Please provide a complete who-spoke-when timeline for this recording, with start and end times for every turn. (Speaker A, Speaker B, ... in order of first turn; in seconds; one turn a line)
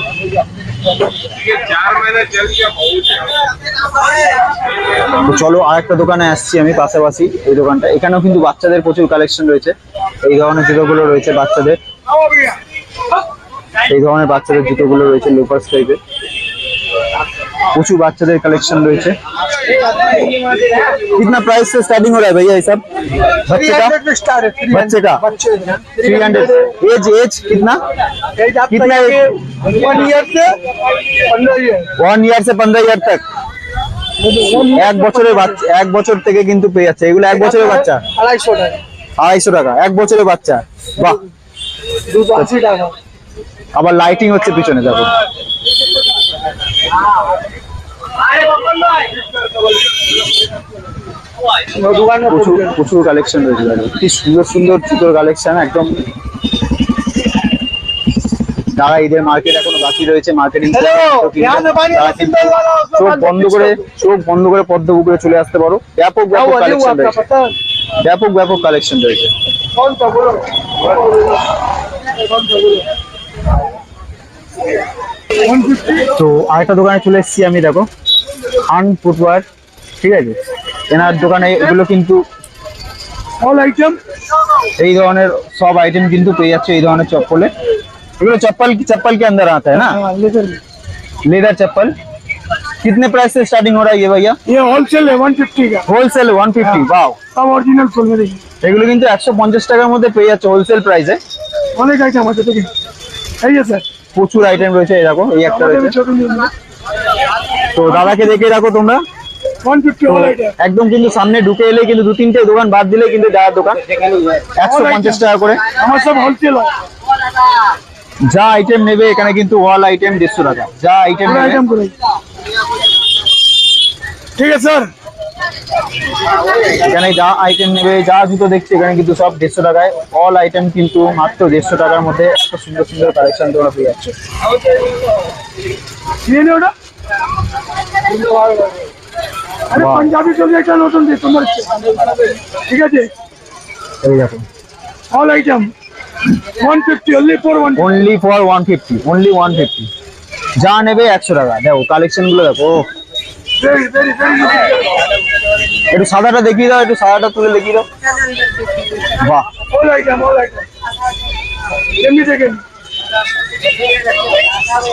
Speaker A: 5.2-11.8
Speaker A: 13.9-16.0
Speaker A: 17.7-19.2
Speaker A: 21.1-22.8
Speaker A: 23.4-23.9
Speaker B: 23.5-26.5
Speaker A: 24.7-25.2
Speaker A: 26.0-27.8
Speaker B: 28.4-30.6
Speaker A: 28.7-29.2
Speaker B: 31.2-31.9
Speaker A: 32.0-33.2
Speaker B: 34.2-35.5
Speaker A: 34.7-38.0
Speaker B: 37.3-38.8
Speaker A: 39.2-41.2
Speaker B: 42.1-43.0
Speaker A: 43.7-45.1
Speaker B: 51.7-52.7
Speaker A: 52.2-56.0
Speaker A: 58.7-67.2
Speaker B: 60.9-63.8
Speaker B: 66.3-67.5
Speaker A: 68.0-69.3
Speaker B: 69.7-70.5
Speaker B: 72.2-72.9
Speaker B: 75.4-76.1
Speaker A: 76.1-77.9
Speaker A: 78.7-79.5
Speaker A: 80.0-80.4
Speaker A: 80.9-82.2
Speaker B: 83.4-84.0
Speaker A: 84.8-87.5
Speaker A: 88.2-90.0
Speaker B: 89.7-90.6
Speaker A: 91.2-91.9
Speaker A: 92.8-94.4
Speaker B: 94.5-95.8
Speaker A: 95.8-97.2
Speaker B: 97.3-98.4
Speaker A: 98.6-101.2
Speaker B: 101.8-102.7
Speaker B: 103.4-103.8
Speaker A: 104.1-106.0
Speaker B: 105.4-106.5
Speaker A: 107.7-109.0
Speaker B: 107.8-108.3
Speaker B: 109.6-110.5
Speaker A: 110.0-113.8
Speaker A: 114.5-115.6
Speaker B: 114.6-116.7
Speaker A: 118.3-121.6
Speaker B: 121.2-121.9
Speaker B: 124.4-124.9
Speaker A: 126.7-134.1
Speaker B: 136.2-136.7
Speaker B: 139.7-141.8
Speaker A: 139.7-140.1
Speaker B: 142.5-143.1
Speaker A: 144.0-144.4
Speaker B: 145.1-145.7
Speaker B: 146.4-147.9
Speaker A: 147.7-149.9
Speaker A: 150.6-152.9
Speaker B: 153.6-154.8
Speaker A: 155.9-157.9
Speaker A: 159.1-159.5
Speaker B: 159.7-160.7
Speaker B: 162.0-162.6